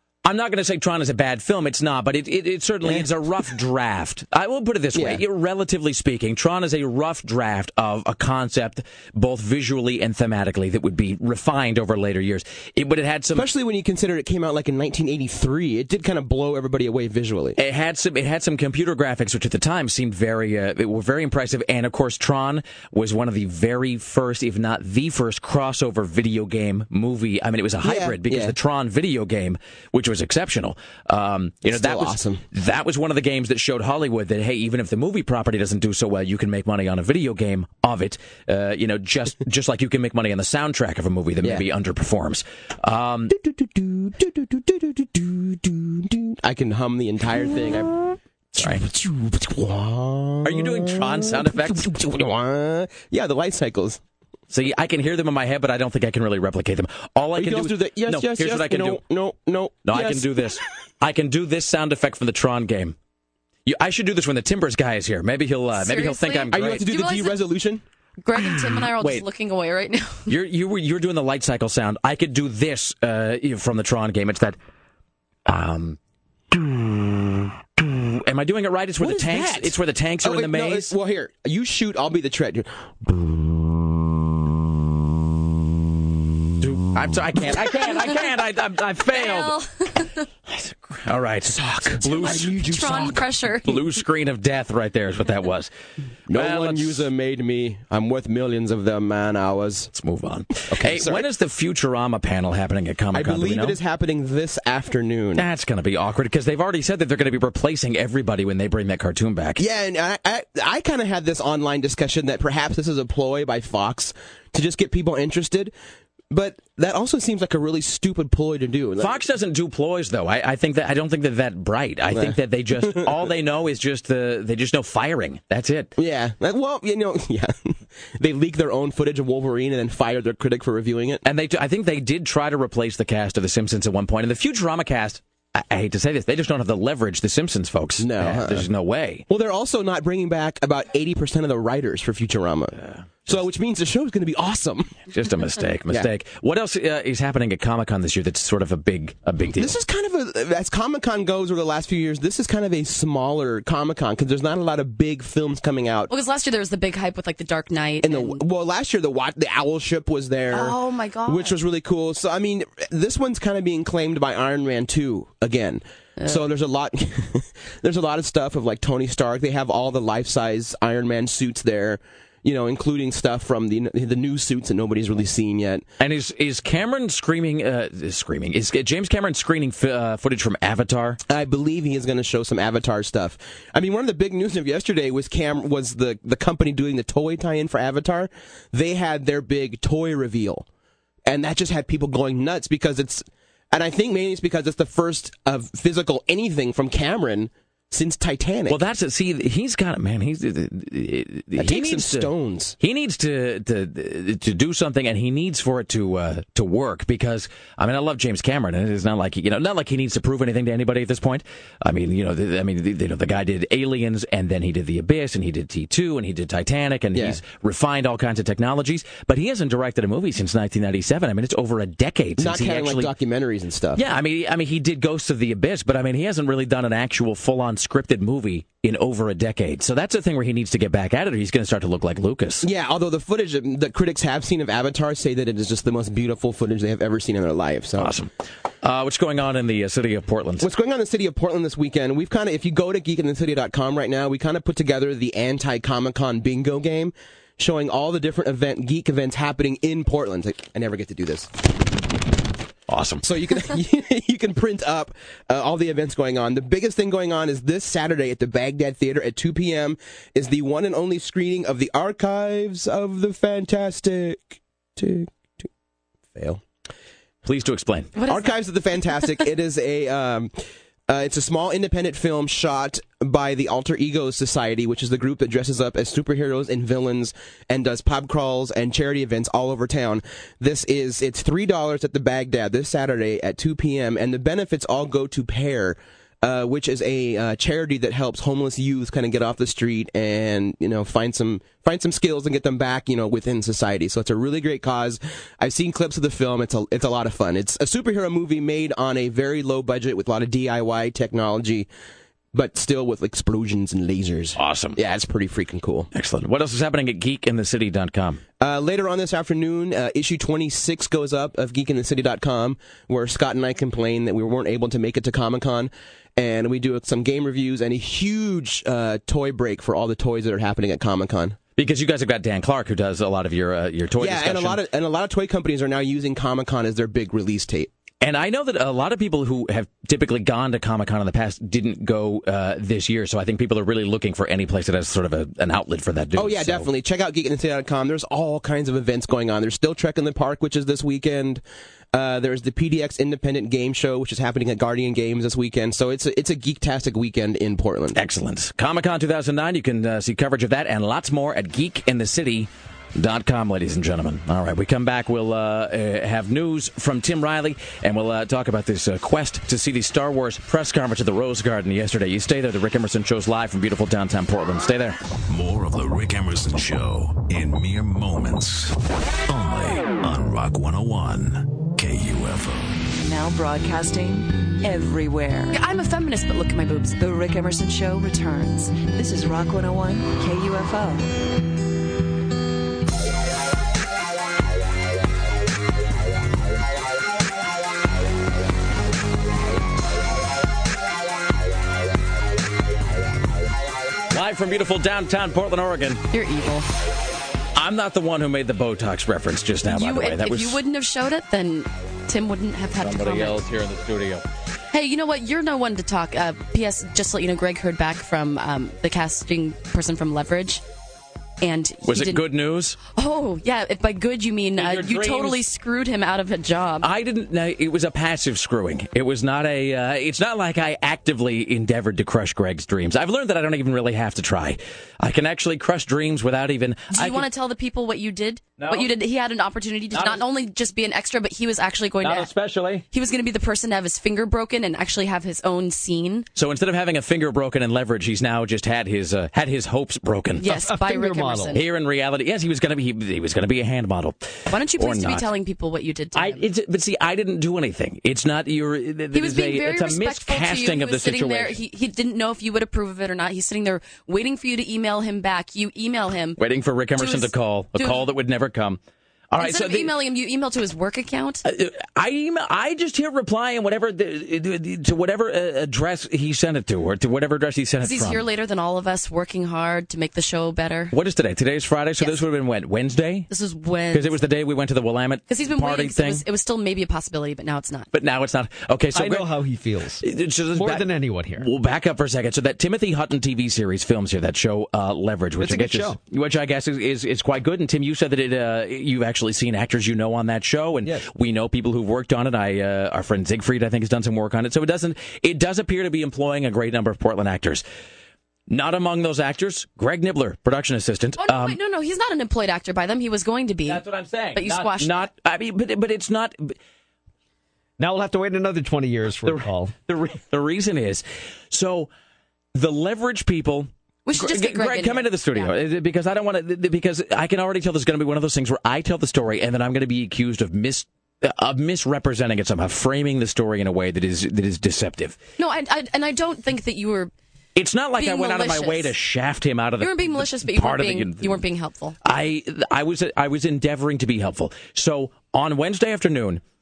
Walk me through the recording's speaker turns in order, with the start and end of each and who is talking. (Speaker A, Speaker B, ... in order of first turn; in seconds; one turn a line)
Speaker A: 0.2-13.5
Speaker B: 4.9-5.2
Speaker B: 13.3-17.6
Speaker A: 17.6-43.3
Speaker B: 27.8-28.6
Speaker B: 31.6-32.4
Speaker B: 43.3-54.0
Speaker A: 48.5-48.8
Speaker A: 50.4-51.9
Speaker A: 54.5-59.0
Speaker B: 57.3-60.4
Speaker A: 59.8-63.0
Speaker A: 63.6-66.8
Speaker C: 65.8-67.4
Speaker B: 66.5-67.8
Speaker C: 68.2-70.3
Speaker A: 69.0-69.2
Speaker A: 70.3-74.5
Speaker A: 75.5-76.0
Speaker A: 76.5-80.9
Speaker B: 79.0-82.7
Speaker A: 86.6-89.5
Speaker C: 87.5-88.2
Speaker C: 89.1-90.3
Speaker A: 90.5-95.7
Speaker B: 91.7-93.1
Speaker C: 92.0-93.8
Speaker B: 96.3-99.9
Speaker A: 96.3-97.1
Speaker A: 99.9-103.8
Speaker B: 100.6-101.3
Speaker B: 103.1-105.5
Speaker A: 105.3-109.6
Speaker B: 109.6-115.7
Speaker B: 116.3-119.2
Speaker A: 119.0-125.9
Speaker B: 122.1-123.1
Speaker B: 126.0-131.2
Speaker A: 131.2-139.2
Speaker B: 138.0-138.7
Speaker B: 139.3-142.8
Speaker A: 142.7-143.5
Speaker B: 143.3-145.0
Speaker A: 145.1-149.8
Speaker B: 149.6-156.1
Speaker C: 156.1-158.4
Speaker B: 158.0-175.8
Speaker C: 160.5-161.6
Speaker C: 166.2-166.5
Speaker A: 176.0-181.2
Speaker B: 181.3-190.7
Speaker B: 191.2-198.8
Speaker A: 198.7-223.1
Speaker B: 201.6-202.8
Speaker B: 217.1-217.4
Speaker B: 222.4-224.0
Speaker A: 223.9-232.7
Speaker B: 232.6-238.2
Speaker A: 238.0-238.3
Speaker A: 238.8-240.7
Speaker B: 240.6-251.5
Speaker A: 252.9-253.2
Speaker B: 253.2-265.7
Speaker B: 266.3-266.6
Speaker A: 267.4-268.1
Speaker C: 268.1-268.6
Speaker B: 268.2-270.5
Speaker B: 271.1-301.9
Speaker B: 302.5-306.1
Speaker A: 304.6-305.0
Speaker A: 306.1-308.4
Speaker B: 308.6-321.6
Speaker A: 321.8-324.8
Speaker B: 324.2-327.9
Speaker A: 328.2-336.9
Speaker B: 336.3-341.6
Speaker B: 342.1-348.2
Speaker A: 348.1-365.2
Speaker D: 365.5-372.9
Speaker E: 373.2-375.8
Speaker C: 375.7-377.2
Speaker E: 377.2-381.3
Speaker A: 394.3-396.2
Speaker C: 396.3-396.9
Speaker A: 397.7-400.8
Speaker C: 399.9-403.6
Speaker A: 403.0-404.4
Speaker C: 404.9-410.8
Speaker C: 411.6-412.4
Speaker A: 412.0-413.0
Speaker C: 413.1-417.1
Speaker A: 414.8-415.6
Speaker A: 417.0-427.4
Speaker C: 427.1-432.5
Speaker A: 428.8-429.1
Speaker A: 430.1-430.4
Speaker A: 432.2-433.0
Speaker C: 433.1-436.4
Speaker A: 436.5-440.7
Speaker C: 440.6-441.8
Speaker F: 440.6-441.8
Speaker A: 441.7-445.5
Speaker C: 444.7-446.6
Speaker A: 446.3-451.8
Speaker C: 449.3-456.6
Speaker A: 456.6-459.0
Speaker C: 457.1-458.2
Speaker A: 459.5-460.1
Speaker C: 459.6-461.6
Speaker A: 461.6-468.4
Speaker C: 468.0-471.1
Speaker A: 471.1-473.5
Speaker C: 473.5-474.4
Speaker A: 474.1-476.4
Speaker C: 475.5-478.1
Speaker A: 478.1-479.5
Speaker F: 479.1-480.2
Speaker A: 480.2-497.8
Speaker F: 480.7-481.7
Speaker F: 485.6-486.2
Speaker A: 498.7-501.8
Speaker C: 501.4-504.0
Speaker A: 503.9-506.8
Speaker C: 504.5-505.1
Speaker F: 508.0-509.9
Speaker A: 509.4-512.1
Speaker A: 512.7-525.4
Speaker C: 514.2-515.7
Speaker C: 525.6-527.3
Speaker A: 527.7-531.6
Speaker C: 528.2-529.1
Speaker C: 530.0-532.1
Speaker A: 532.2-536.6